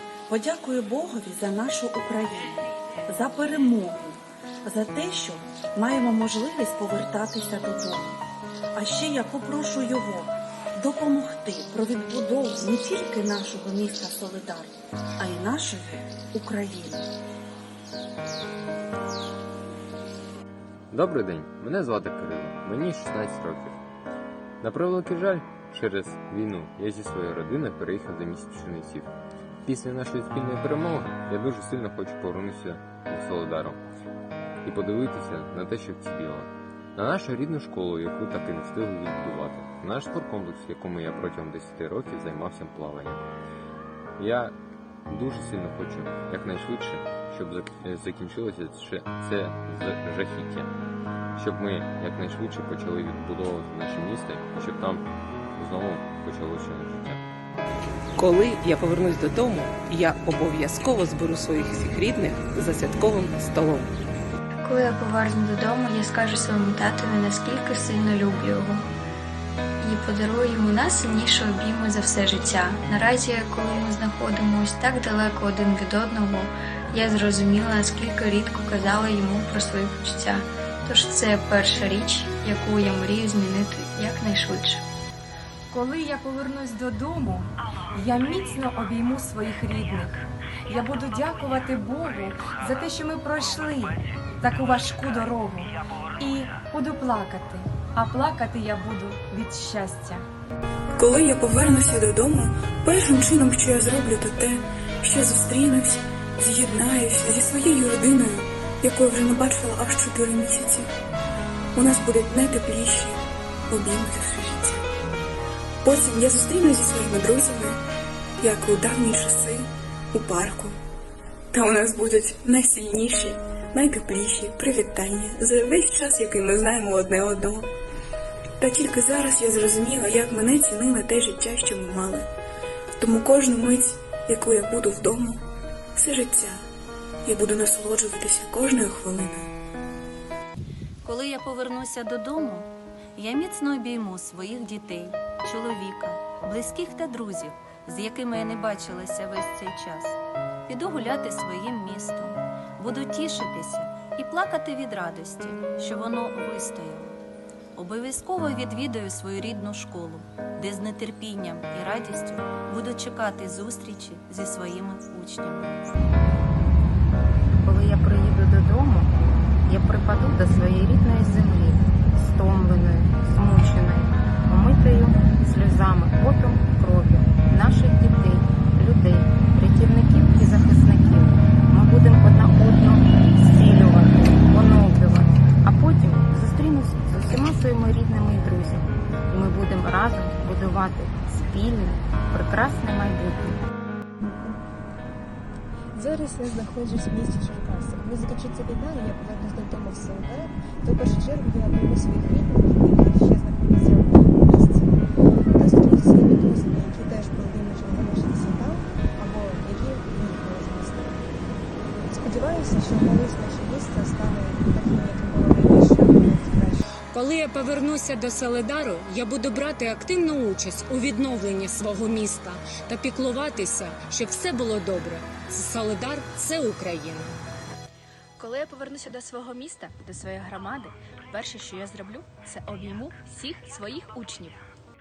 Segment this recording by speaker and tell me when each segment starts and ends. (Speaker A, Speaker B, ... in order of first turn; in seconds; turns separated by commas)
Speaker A: 0.3-8.2, Speaker A: 8.7-17.1, Speaker B: 20.9-23.8, Speaker B: 24.6-29.1, Speaker B: 29.6-33.8, Speaker B: 34.6-43.3, Speaker B: 44.2-44.5, Speaker B: 45.1-50.7, Speaker B: 51.4-57.2, Speaker C: 58.2-63.9, Speaker D: 64.6-68.9, Speaker D: 69.8-84.8, Speaker E: 85.7-100.2, Speaker F: 101.0-110.9, Speaker F: 111.7-113.2, Speaker F: 113.7-114.8, Speaker F: 115.8-117.8, Speaker F: 118.4-120.8, Speaker F: 121.5-127.7, Speaker F: 128.6-132.2, Speaker F: 133.0-135.4, Speaker F: 135.9-136.6, Speaker F: 137.2-139.5, Speaker G: 141.0-157.2, Speaker G: 157.7-165.7, Speaker H: 167.6-193.6, Speaker I: 194.2-194.6, Speaker I: 195.9-204.9, Speaker I: 205.6-211.2, Speaker I: 212.1-216.9, Speaker J: 217.1-227.3, Speaker K: 228.4-234.6